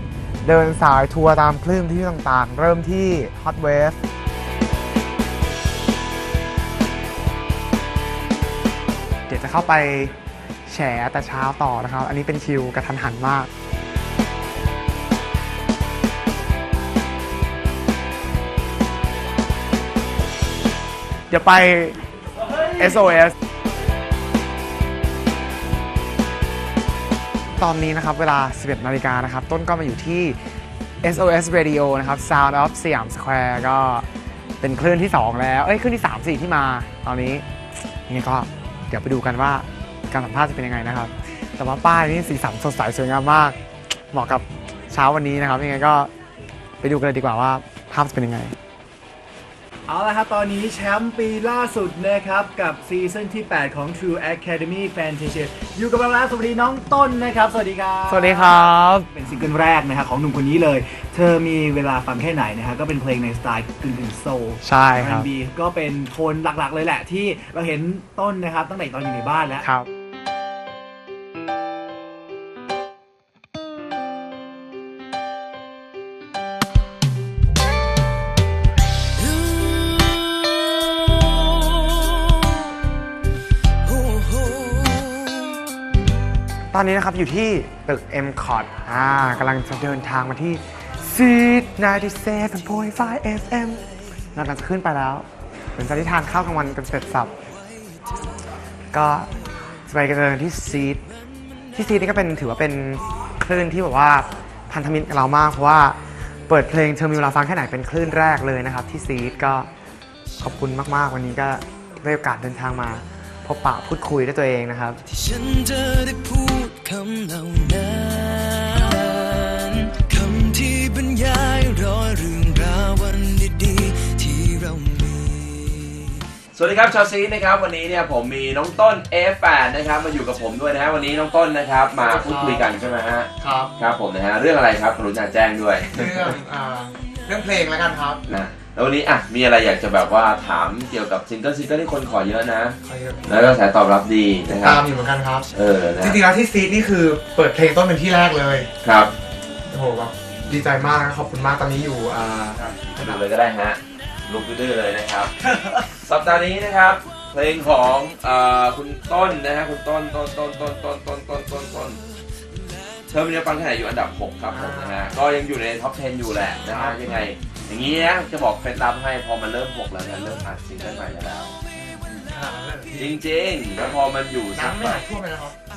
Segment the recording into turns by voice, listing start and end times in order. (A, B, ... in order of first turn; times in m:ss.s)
0:00.4-0:04.0 A
0:09.3-0:10.1 A
0:10.7-0:13.5 A
0:21.3-0:22.0 A
0:22.8-0:23.3 A
0:27.6-0:30.4 A
0:31.0-0:34.1 A
0:34.6-0:37.4 A
0:38.1-0:43.6 A
0:44.1-0:46.1 A
0:46.8-0:48.6 A
0:49.9-0:58.3 B
0:58.1-0:59.1 A
0:59.2-1:09.6 B
1:04.6-1:05.3 A
1:09.6-1:09.9 A
1:19.4-1:20.4 C
1:21.3-1:22.1 C
1:23.9-1:25.5 C
1:26.7-1:33.8 A
1:34.4-1:35.2 A
1:35.8-1:37.3 A
1:38.9-1:39.3 A
1:39.9-1:41.0 A
1:41.7-1:46.0 A
1:46.5-1:49.7 A
1:50.4-1:55.0 A
1:55.1-2:06.2 C
2:06.5-2:16.4 D
2:12.0-2:12.7 A
2:13.4-2:13.7 A
2:15.9-2:18.2 A
2:18.3-2:24.8 D
2:22.8-2:23.3 A
2:24.5-2:25.5 A
2:25.6-2:26.2 D
2:26.0-2:28.7 A
2:28.8-2:29.1 D
2:29.7-2:33.2 A
2:32.6-2:35.3 D
2:36.0-2:42.0 D
2:43.1-2:51.6 D
2:44.5-2:45.0 A
2:46.7-2:47.2 A
2:52.1-2:53.1 A
2:53.0-2:55.0 D
2:54.5-2:55.6 A